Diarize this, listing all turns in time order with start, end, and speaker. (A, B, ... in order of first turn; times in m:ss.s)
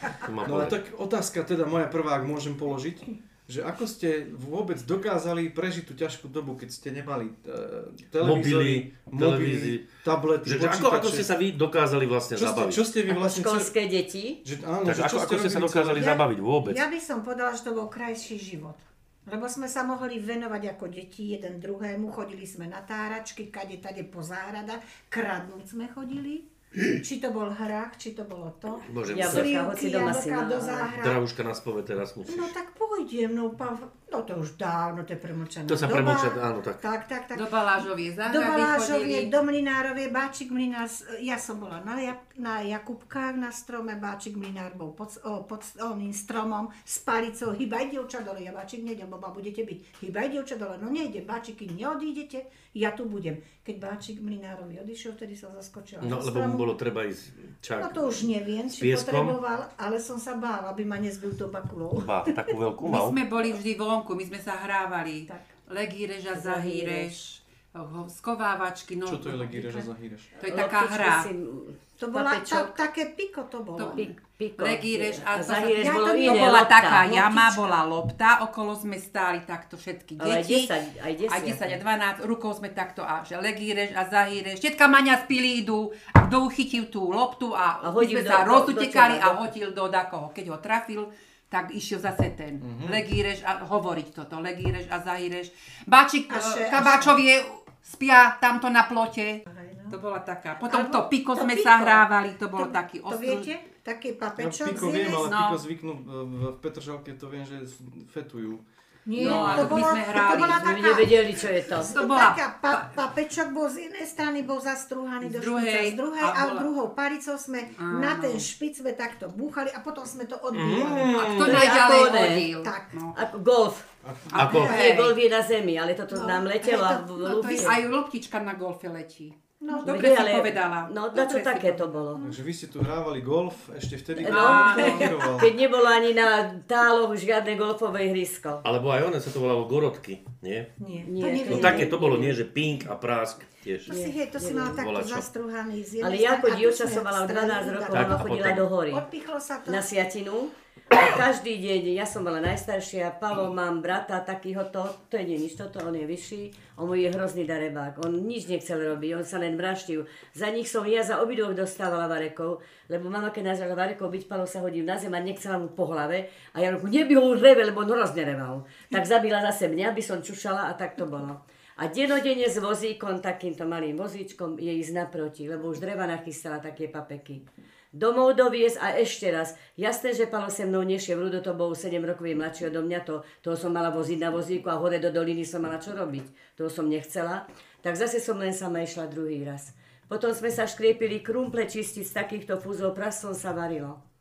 0:00.1-0:00.8 A
0:00.4-0:11.3 B
0:08.2-0:12.9 A
0:12.4-0:13.7 B
0:13.1-0:14.4 C
0:14.4-0:16.1 B
0:14.8-0:16.8 A
0:16.0-0:31.2 D
0:28.9-0:29.6 A
0:29.1-0:30.9 C
0:31.0-0:32.5 A
0:32.3-0:37.5 D
0:35.7-0:36.8 A
0:37.3-0:39.3 E
0:38.3-0:56.6 D
0:56.0-0:59.4 A
0:57.8-1:02.4 D
1:01.9-1:03.2 A
1:02.8-1:09.8 E
1:06.3-1:07.2 C
1:09.0-1:10.3 B
1:10.4-1:11.3 E
1:10.4-1:12.8 C
1:12.0-1:14.0 D
1:13.8-1:20.7 E
1:14.0-1:17.7 C
1:15.8-1:16.7 D
1:20.2-1:21.8 C
1:21.3-1:43.5 E
1:27.8-1:29.5 C
1:32.6-1:33.0 B
1:36.3-1:37.2 D
1:39.5-1:40.0 D
1:40.7-1:45.4 D
1:44.4-1:48.6 B
1:45.1-1:45.6 E
1:49.1-2:02.9 D
1:49.2-1:51.0 E
1:49.2-1:52.0 C
1:51.8-1:52.9 E
1:55.2-1:56.7 E
1:57.8-1:58.5 E
2:00.5-2:01.7 A
2:01.2-2:03.2 E
2:01.4-2:02.5 C
2:03.1-2:03.9 C
2:04.0-2:04.4 B
2:04.4-2:04.8 A
2:04.4-2:05.2 E
2:04.4-2:04.8 D
2:04.4-2:07.8 C
2:06.1-2:07.8 D
2:07.2-2:12.3 E
2:09.6-2:10.1 D
2:09.8-2:12.2 C
2:12.2-2:15.5 B
2:14.2-2:18.6 C
2:14.2-2:15.2 E
2:14.7-2:15.1 D
2:18.6-2:20.7 A
2:20.8-2:21.9 D
2:21.0-2:22.4 C
2:21.3-2:23.9 A
2:23.9-2:29.8 D
2:23.9-2:24.8 C
2:24.8-2:25.3 A
2:26.0-2:29.0 C
2:27.9-2:28.7 A
2:29.7-3:14.0 C